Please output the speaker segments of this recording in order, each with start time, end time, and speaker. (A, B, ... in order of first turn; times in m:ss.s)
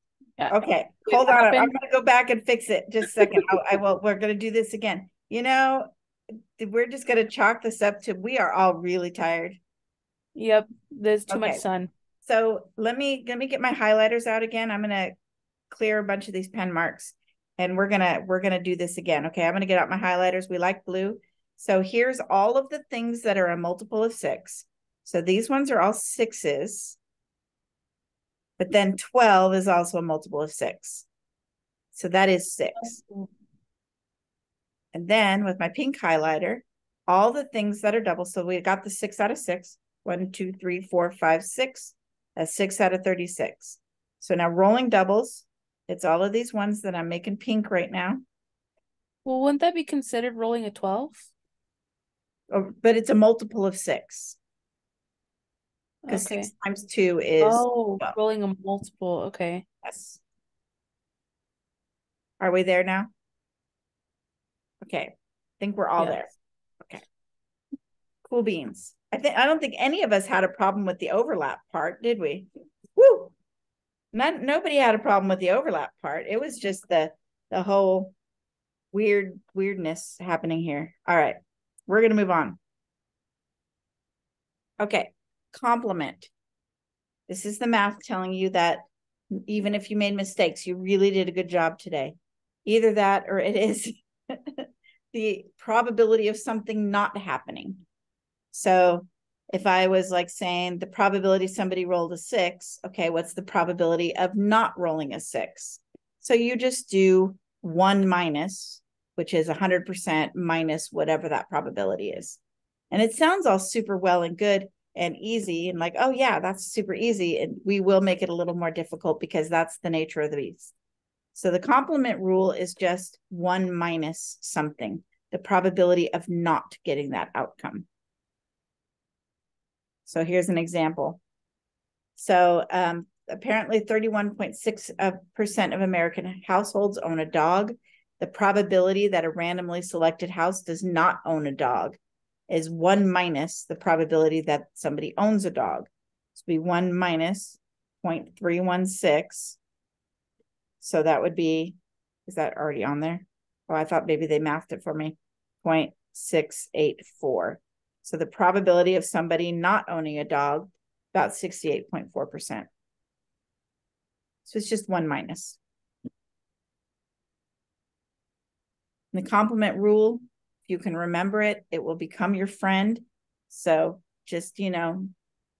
0:00.4-0:01.7 A
0:00.5-0:05.9 B
0:06.6-0:09.6 B
0:10.4-0:11.9 A
0:11.3-0:11.6 B
0:12.2-0:15.1 B
0:15.7-0:27.0 B
0:28.6-0:31.0 B
0:31.9-0:33.0 B
0:34.9-0:48.2 B
0:49.2-0:51.3 A
0:52.5-0:54.4 B
0:56.0-0:56.5 A
0:56.1-0:58.1 B
0:57.4-0:59.6 A
0:59.8-1:00.2 B
1:02.4-1:03.1 B
1:04.8-1:06.3 B
1:06.0-1:06.2 A
1:08.2-1:13.3 B
1:14.1-1:18.1 B
1:18.9-1:22.6 B
1:24.8-1:26.3 B
1:27.3-1:37.8 B
1:38.5-1:52.4 B
1:52.9-2:00.7 B
2:01.3-2:07.8 B
2:10.0-2:11.2 B
2:12.2-2:22.0 B
2:22.5-2:29.6 B
2:30.8-2:42.7 B
2:44.4-2:45.6 B
2:49.1-2:55.1 B